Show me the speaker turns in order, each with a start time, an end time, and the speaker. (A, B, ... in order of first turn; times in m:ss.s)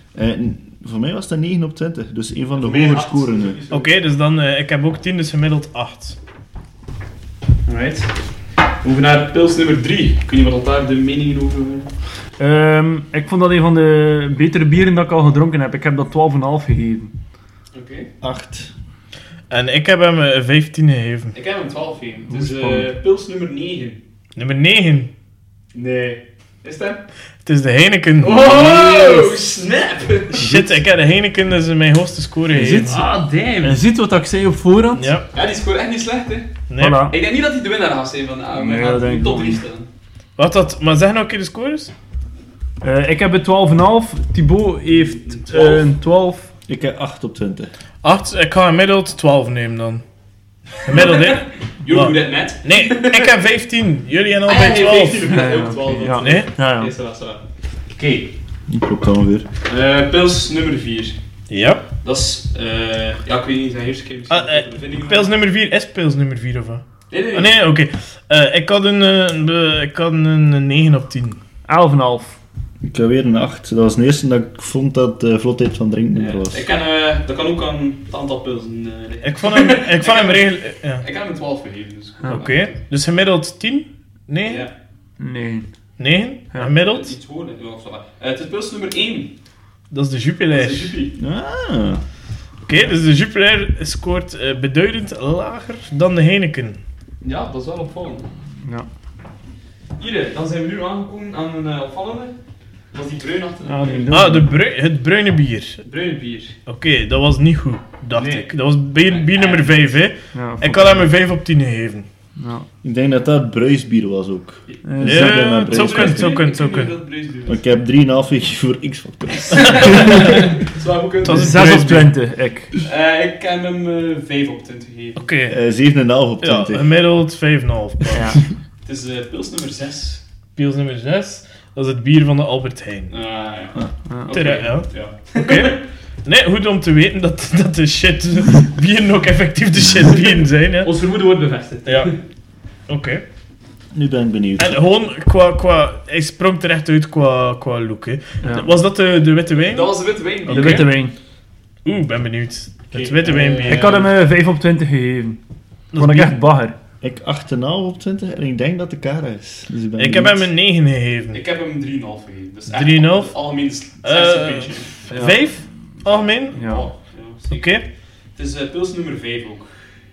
0:00.2-0:03.6 A
0:02.6-0:03.9 B
0:03.7-0:06.2 C
0:07.7-0:08.1 B
0:08.8-0:11.9 B
0:12.4-0:17.1 D
0:17.7-0:18.1 B
0:18.2-0:18.7 A
0:19.5-0:21.3 C
0:21.3-0:24.0 B
0:22.3-0:22.9 D
0:24.4-0:25.1 C
0:25.7-0:27.0 B
0:27.4-0:29.3 C
0:28.2-0:30.6 B
0:30.3-0:33.0 C
0:32.5-0:35.1 D
0:32.9-0:33.8 B
0:35.0-0:35.3 C
0:35.3-0:39.9 B
0:36.7-0:37.1 C
0:36.8-0:37.2 D
0:38.5-0:39.6 D
0:40.4-0:41.9 C
0:42.8-0:46.5 D
0:44.9-0:45.9 B
0:46.7-0:47.7 A
0:48.0-0:50.0 C
0:50.8-0:55.4 C
0:50.9-0:53.4 B
0:54.4-0:57.4 B
0:55.3-0:56.9 D
0:56.1-0:56.5 C
0:58.0-0:58.3 B
0:58.7-0:59.5 A
0:59.7-1:01.2 B
1:01.5-1:01.8 C
1:02.0-1:05.4 B
1:04.3-1:11.4 C
1:07.1-1:07.6 B
1:11.7-1:12.4 D
1:12.8-1:16.7 A
1:16.1-1:22.8 B
1:19.2-1:21.0 C
1:22.3-1:24.7 C
1:24.5-1:24.7 B
1:25.2-1:25.7 D
1:26.0-1:27.1 C
1:26.8-1:29.4 B
1:29.9-1:31.0 C
1:30.5-1:31.2 B
1:31.2-1:32.0 A
1:32.6-1:36.8 C
1:37.2-1:38.3 B
1:38.6-1:38.9 D
1:40.0-1:42.4 B
1:42.9-1:44.3 B
1:43.6-1:44.5 D
1:44.1-1:45.8 C
1:45.8-1:46.6 B
1:46.7-1:52.1 C
1:48.1-1:49.8 B
1:50.3-1:51.0 D
1:52.4-1:52.7 D
1:52.8-1:56.3 A
1:54.8-1:55.6 D
1:55.0-1:56.9 C
1:55.6-1:57.6 B
1:57.5-2:00.3 A
1:59.4-2:01.8 B
1:59.5-2:00.6 C
2:01.2-2:02.1 C
2:01.3-2:02.7 D
2:02.8-2:05.3 B
2:05.2-2:05.6 C
2:05.5-2:07.0 A
2:06.4-2:08.4 C
2:08.9-2:10.2 B
2:10.6-2:13.1 C
2:13.1-2:15.8 B
2:14.1-2:14.4 D
2:14.3-2:20.9 C
2:20.8-2:22.2 B
2:21.9-2:22.1 C
2:22.9-2:23.2 C
2:23.9-2:24.8 A
2:24.6-2:29.9 C
2:28.4-2:28.7 D
2:29.6-2:30.9 B
2:30.5-2:31.2 D
2:30.5-2:30.8 C
2:31.8-2:34.1 C
2:32.9-2:34.1 B
2:33.6-2:35.4 D
2:35.9-2:36.4 C
2:36.0-2:36.8 D
2:37.0-2:40.5 A
2:40.0-2:41.4 C
2:41.3-2:45.3 B
2:42.7-2:43.3 C
2:44.0-2:46.6 C
2:45.1-2:45.4 D
2:46.1-2:47.8 B
2:46.6-2:46.9 D
2:47.5-2:47.9 C
2:48.4-2:49.7 B